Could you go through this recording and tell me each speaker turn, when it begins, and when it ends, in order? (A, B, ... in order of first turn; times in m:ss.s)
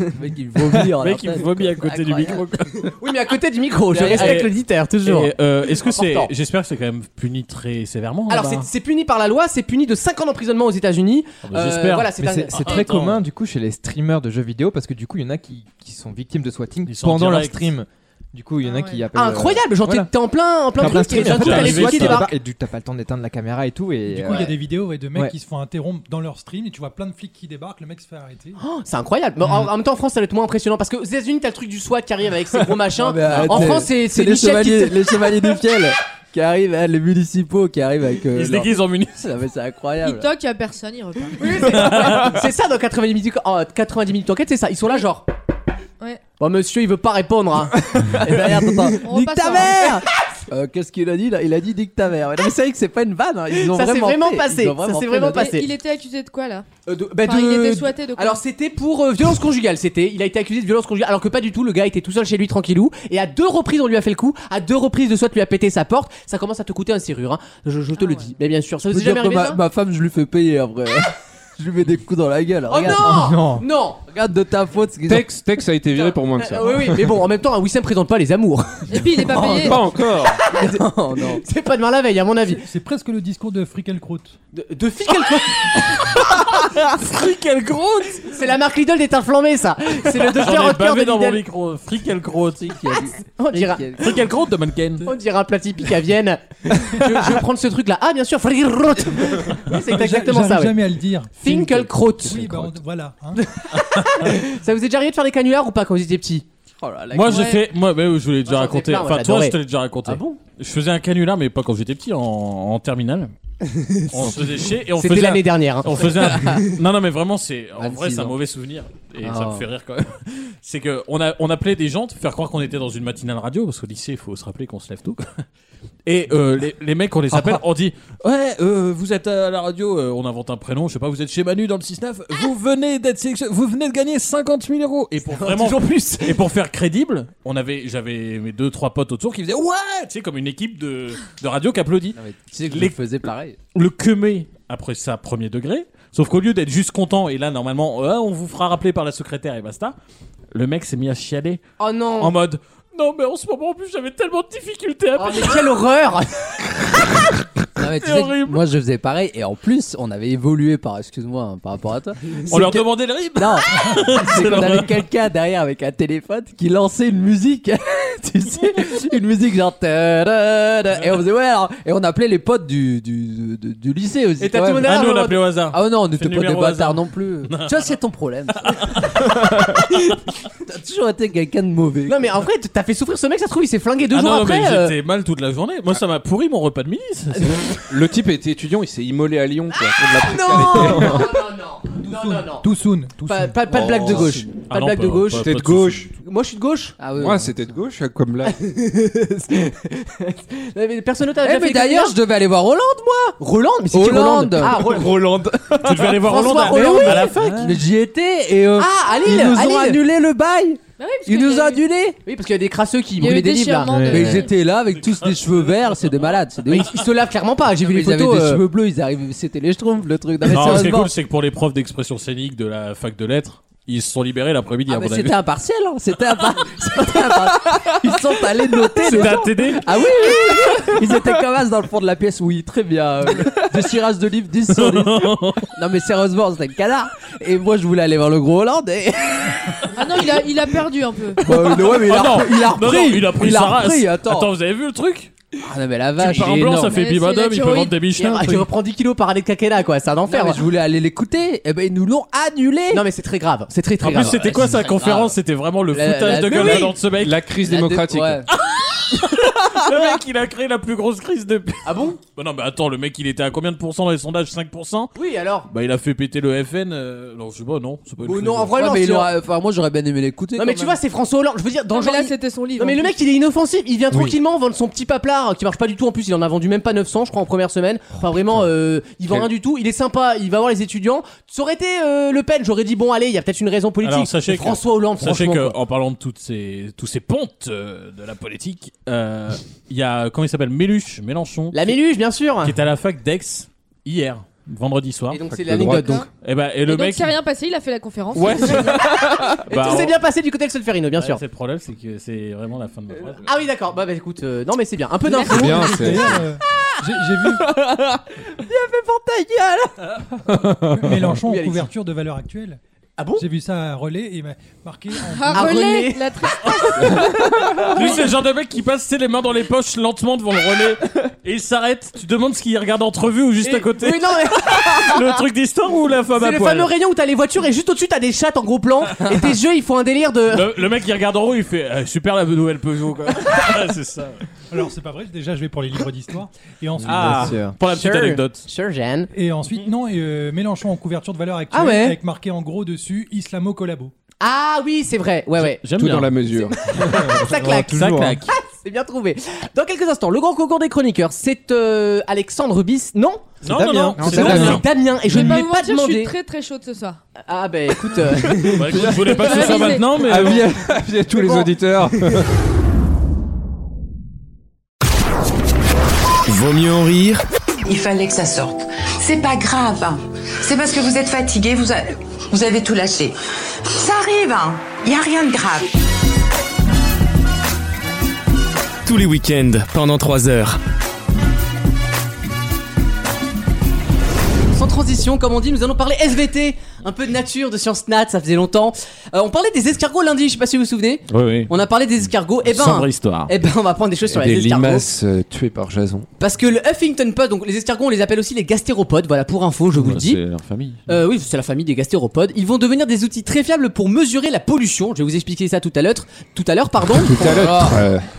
0:00.2-0:02.5 A
0:00.7-0:02.9 B
0:03.0-0:06.3 C
0:03.9-0:04.4 A
0:03.9-0:04.5 B
0:05.0-0:08.7 B
0:08.3-0:12.9 C
0:11.4-0:13.2 B
0:12.2-0:20.1 D
0:16.9-0:17.7 B
0:18.6-0:19.1 E
0:19.1-0:22.3 C
0:20.8-0:24.5 D
0:21.0-0:22.3 B
0:24.1-0:28.6 F
0:28.6-0:35.0 C
0:33.0-0:40.3 A
0:33.3-0:33.8 D
0:38.3-0:39.1 B
0:40.0-0:41.6 E
0:41.4-0:45.3 C
0:41.7-0:42.3 B
0:46.4-0:48.2 C
0:48.2-0:55.6 A
0:49.0-0:49.9 E
0:53.5-0:55.7 C
0:55.4-0:56.7 E
0:56.9-1:09.6 C
0:57.2-0:58.4 E
1:08.0-1:08.3 E
1:08.9-1:13.5 A
1:12.7-1:14.0 C
1:14.1-1:15.3 A
1:15.1-1:17.2 G
1:16.0-1:18.8 C
1:18.9-1:19.9 E
1:19.3-1:19.8 A
1:19.5-1:20.4 G
1:20.4-1:22.6 C
1:20.5-1:21.4 A
1:22.6-1:24.4 F
1:24.5-1:26.0 C
1:26.0-1:28.3 B
1:28.3-1:31.4 C
1:30.2-1:32.8 B
1:32.6-1:34.2 A
1:33.4-1:33.9 C
1:34.0-1:35.1 B
1:35.1-1:40.8 C
1:39.7-1:41.6 F
1:41.4-1:42.6 C
1:42.2-1:43.4 F
1:43.4-1:46.4 C
1:46.8-1:47.6 A
1:47.1-1:53.3 B
1:48.5-1:50.4 C
1:54.1-2:05.4 B
1:55.0-1:56.1 C
1:56.2-1:56.6 A
1:57.8-1:58.4 A
1:59.2-1:59.7 A
2:06.1-2:23.0 B
2:15.3-2:16.4 C
2:22.2-2:23.6 A
2:23.7-2:30.0 B
2:30.5-2:31.6 B
2:31.8-2:32.4 C
2:32.2-2:35.8 B
2:35.2-2:36.8 C
2:37.8-2:42.8 A
2:38.0-2:38.6 B
2:42.5-2:44.9 B
2:43.4-2:55.0 A
2:54.4-2:55.4 C
2:54.8-2:57.9 B
2:55.7-2:59.4 A
2:58.6-2:59.2 B
3:00.6-3:02.3 A
3:02.1-3:04.9 C
3:04.1-3:07.7 B
3:07.9-3:11.5 G
3:10.1-3:12.7 C
3:12.1-3:13.8 F
3:13.2-3:15.5 C
3:13.7-3:14.4 G
3:14.7-3:16.1 B
3:15.4-3:16.1 G
3:16.2-3:17.0 C
3:17.0-3:17.7 A
3:17.2-3:18.6 G
3:18.4-3:22.2 C
3:21.4-3:23.4 A
3:23.4-3:25.4 C
3:23.9-3:25.1 A
3:25.7-3:27.8 B
3:26.1-3:27.3 C
3:26.8-3:32.2 A
3:28.8-3:30.0 C
3:31.0-3:31.8 E
3:32.2-3:34.2 C
3:33.2-3:34.6 E
3:33.9-3:37.0 A
3:34.8-3:36.4 B
3:36.7-3:38.6 C
3:37.8-3:41.1 A
3:40.4-3:45.4 B
3:44.9-3:59.8 A
3:49.0-3:49.9 B
3:54.7-3:55.7 B
3:59.9-4:01.4 E
4:01.4-4:04.5 A
4:01.7-4:05.3 B
4:05.6-4:07.0 A
4:06.2-4:08.7 B
4:06.8-4:08.0 E
4:08.2-4:10.6 C
4:10.3-4:13.0 A
4:12.9-4:14.8 C
4:14.0-4:17.4 B
4:14.4-4:15.3 A
4:15.9-4:16.9 A
4:16.3-4:16.8 C
4:16.5-4:18.4 G
4:17.6-4:18.5 A
4:18.5-4:25.1 B
4:21.8-4:22.2 C
4:25.2-4:25.7 C
4:25.7-4:28.8 B
4:28.2-4:29.3 C
4:28.8-4:31.0 A
4:30.6-4:45.8 C
4:31.9-4:33.2 E
4:44.0-4:52.0 B
4:51.7-4:52.8 C
4:52.6-4:55.4 B
4:55.3-4:56.3 C
4:55.5-4:56.2 G
4:55.9-4:56.3 E
4:56.4-4:57.4 B
4:56.9-4:59.1 E
4:58.4-5:00.2 B
4:59.7-5:01.4 C
5:01.2-5:03.5 B
5:03.4-5:06.0 C
5:05.3-5:06.2 E
5:05.4-5:06.4 G
5:05.9-5:07.6 F
5:07.6-5:08.1 A
5:08.6-5:09.9 A
5:10.5-5:10.8 G
5:10.6-5:12.8 F
5:11.4-5:11.9 C
5:13.2-5:13.5 C
5:13.4-5:15.7 F
5:15.3-5:18.2 E
5:15.5-5:16.3 C
5:17.8-5:26.9 B
5:23.6-5:25.4 C
5:26.4-5:30.7 C
5:30.5-5:34.4 B
5:34.7-5:37.6 F
5:37.0-5:38.7 B
5:37.2-5:37.6 D
5:37.9-5:39.3 C
5:39.3-5:44.1 F
5:41.7-5:42.2 C
5:44.4-5:45.8 C
5:45.6-5:46.6 B
5:46.0-5:47.3 G
5:46.6-5:53.5 C
5:47.4-5:48.4 D
5:47.8-5:48.5 B
5:53.6-5:54.8 B
5:53.6-5:54.8 D
5:54.2-5:56.3 C
5:55.3-5:57.2 E
5:57.5-5:59.4 C
5:58.6-6:00.7 B
5:58.9-5:59.3 D
5:59.3-6:00.2 E
6:00.1-6:02.4 D
6:01.3-6:02.4 G
6:06.5-6:07.4 H
6:07.8-6:13.4 I
6:14.0-6:15.9 I
6:19.0-6:20.8 H
6:24.7-6:35.1 C
6:31.3-6:31.7 B
6:32.6-6:33.5 B
6:34.2-6:36.3 G
6:36.4-6:40.4 C
6:39.9-6:41.0 B
6:41.1-6:48.0 C
6:47.1-6:48.2 G